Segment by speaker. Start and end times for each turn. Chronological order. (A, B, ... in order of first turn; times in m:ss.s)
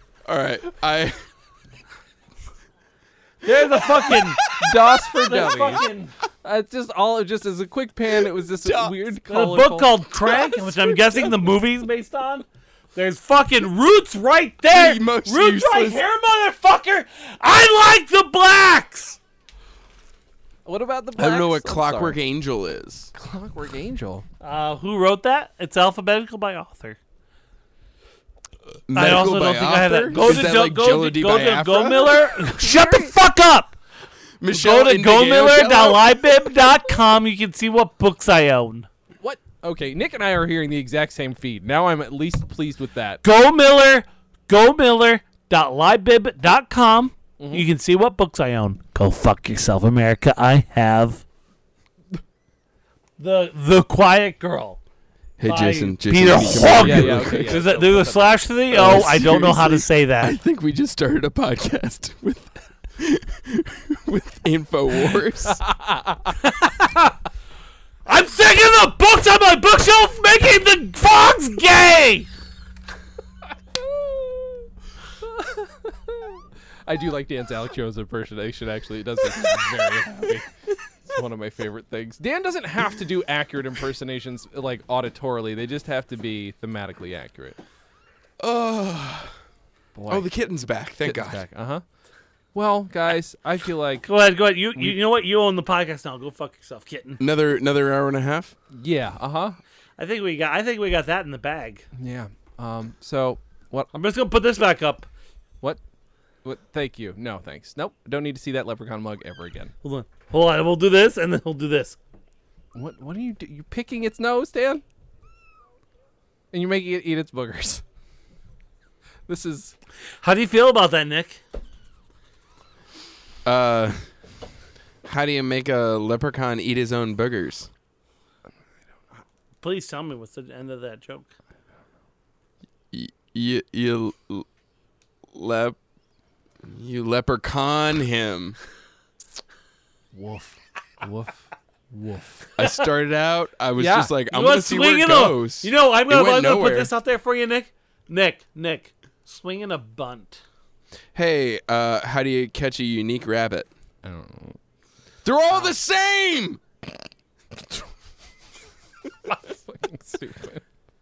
0:00.2-0:01.2 A
0:03.4-0:04.5 B
0:04.4-0:05.8 C
0:04.4-0:04.7 A
0:05.2-0:06.1 B
0:06.4-0:09.9 C
0:08.6-0:09.0 A
0:09.3-0:19.2 B
0:10.3-0:10.6 A
0:14.7-0:16.0 A
0:20.6-0:22.2 C
0:21.2-0:23.1 A
0:23.1-0:24.2 C
0:24.4-0:27.0 B
0:28.9-0:32.4 A
0:28.9-0:33.8 B
0:30.1-0:30.5 C
0:32.6-0:33.1 C
0:34.4-0:36.2 A
0:34.5-0:38.9 B
0:39.2-0:43.2 C
0:43.2-0:51.2 B
0:47.4-0:47.7 C
0:53.2-0:54.8 B
0:55.4-0:57.6 A
0:55.4-1:00.4 B
0:56.7-0:58.4 C
0:58.7-1:05.6 A
1:05.5-1:06.3 C
1:06.4-1:07.1 B
1:08.0-1:12.3 B
1:13.8-1:14.6 C
1:15.2-1:27.6 C
1:28.4-1:29.3 A
1:29.9-1:30.2 C
1:30.1-1:31.4 A
1:31.0-1:31.8 C
1:32.5-1:34.0 C
1:34.0-1:37.2 B
1:37.2-1:38.5 A
1:38.7-1:39.6 C
1:40.0-1:41.8 B
1:41.9-1:43.9 C
1:43.9-1:45.1 B
1:46.4-1:49.7 C
1:49.8-1:52.0 B
1:52.7-1:54.8 C
1:56.5-1:57.8 C
1:59.3-1:59.7 C
2:00.2-2:01.4 B
2:03.4-2:04.0 A
2:05.0-2:07.7 A
2:09.6-2:11.3 B
2:12.9-2:14.4 A
2:15.3-2:15.8 A
2:16.6-2:18.6 A
2:20.1-2:22.5 C
2:22.6-2:26.9 A
2:23.8-2:24.1 C
2:24.3-2:30.4 B
2:31.1-2:33.7 A
2:34.0-2:34.6 C
2:35.2-2:36.6 A
2:39.3-2:40.6 C